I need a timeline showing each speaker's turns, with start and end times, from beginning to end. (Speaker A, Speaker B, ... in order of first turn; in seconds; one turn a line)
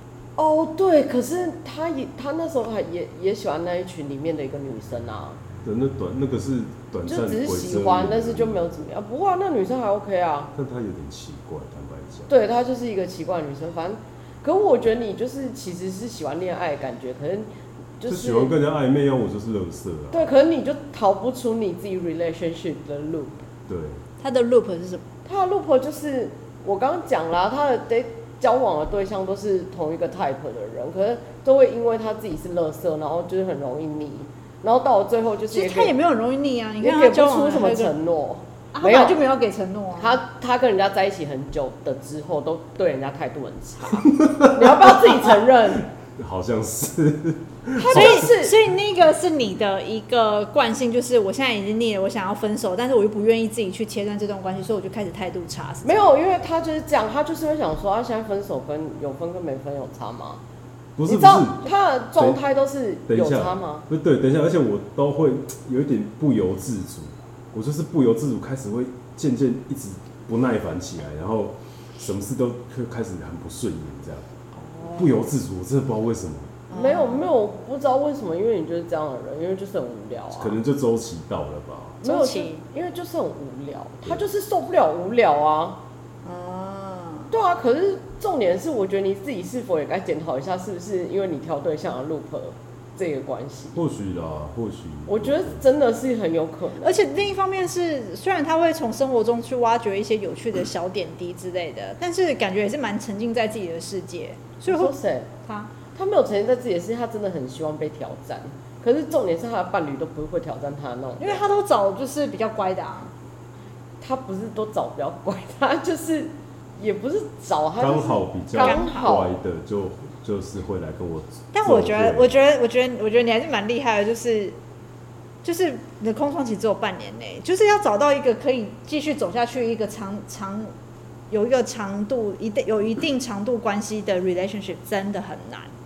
Speaker A: 0.4-5.4
Speaker B: 5.6-8.7
Speaker A: 7.1-10.5
Speaker B: 10.5-12.3
Speaker A: 12.3-18.5
Speaker B: 18.1-20.3
Speaker A: 20.1-23.4
Speaker B: 23.7-24.0
Speaker C: 24.2-25.0
Speaker A: 25.2-35.9
Speaker C: 35.5-37.9
Speaker A: 36.8-39.2
Speaker C: 38.7-40.2
Speaker A: 40.0-45.9
Speaker B: 44.2-45.0
Speaker B: 46.0-48.2
Speaker A: 47.8-48.5
Speaker C: 47.9-56.0
Speaker A: 55.8-60.4
Speaker B: 61.0-62.4
Speaker A: 61.0-63.9
Speaker B: 63.1-74.3
Speaker C: 74.5-75.1
Speaker B: 74.9-76.6
Speaker A: 76.7-80.6
Speaker C: 76.7-77.2
Speaker B: 80.3-82.0
Speaker C: 82.0-82.6
Speaker A: 82.0-85.8
Speaker C: 86.2-87.3
Speaker A: 87.3-93.8
Speaker B: 93.7-95.6
Speaker A: 95.1-97.0
Speaker C: 96.8-105.7
Speaker A: 104.6-105.3
Speaker A: 105.9-111.4
Speaker C: 111.2-113.1
Speaker A: 114.0-119.3
Speaker B: 117.8-122.3
Speaker C: 118.6-119.1
Speaker C: 121.5-124.6
Speaker C: 125.4-130.7
Speaker C: 131.3-135.7